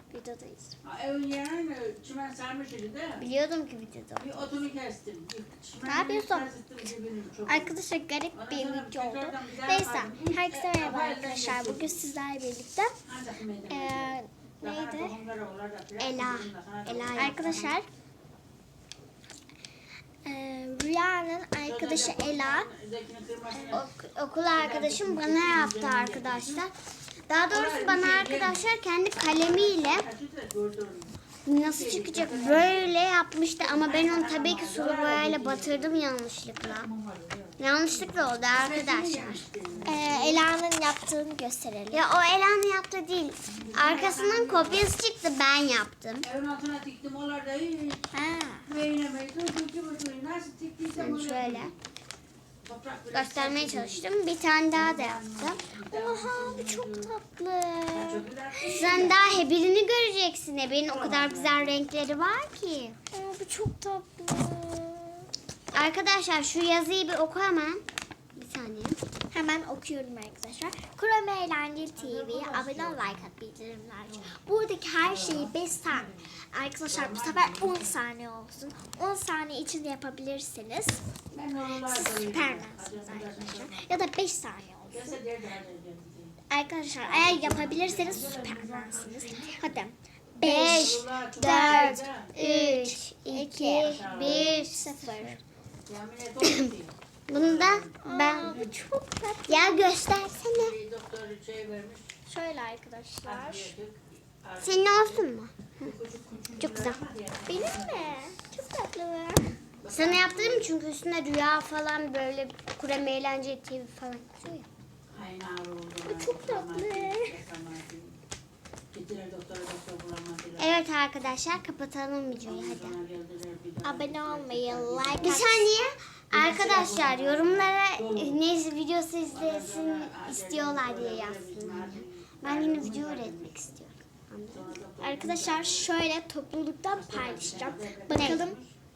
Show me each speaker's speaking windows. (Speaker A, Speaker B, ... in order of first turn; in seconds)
Speaker A: 0.1-0.8, 5.8-6.5, 7.5-13.0, 13.7-15.2, 17.1-17.9, 20.2-22.7, 23.5-23.8, 39.9-42.0, 48.1-48.7, 55.9-59.1, 63.1-65.3, 69.3-81.0, 81.8-85.2, 86.5-95.4, 98.0-100.0, 102.3-103.7, 107.5-109.5, 116.0-117.4, 123.8-125.7, 135.0-138.6
Speaker B: 0.8-3.3, 4.2-7.8, 8.3-12.1, 13.1-17.8, 21.6-23.9, 24.6-26.6, 27.5-31.1, 31.6-33.0, 33.6-36.1, 36.6-37.5, 38.5-40.4, 43.5-44.9, 46.2-48.1, 48.7-51.8, 52.6-54.1, 54.7-57.1, 57.9-59.2, 60.9-61.8, 72.0-73.3, 75.0-76.2, 76.9-78.0, 81.3-84.0, 84.9-86.3, 87.0-89.6, 90.5-92.4, 93.8-94.6, 95.9-98.8, 100.5-102.2, 103.2-105.2, 105.8-108.3, 109.8-110.7, 115.1-118.2, 118.9-120.8, 122.5-125.4, 126.3-128.4, 129.3-133.6, 134.5-135.9, 136.9-138.7
Speaker C: 3.2-4.3, 16.0-17.8, 23.7-26.7, 27.3-30.1, 31.4-36.9, 37.6-39.4, 41.9-46.2, 51.0-51.7, 53.1-55.6, 58.7-63.0, 65.7-67.8, 68.4-69.0, 90.4-95.4, 96.4-96.7, 97.3-98.6, 99.5-100.7, 104.6-105.9, 106.6-107.0, 109.9-114.7, 120.6-123.0, 125.2-134.7, 138.1-138.5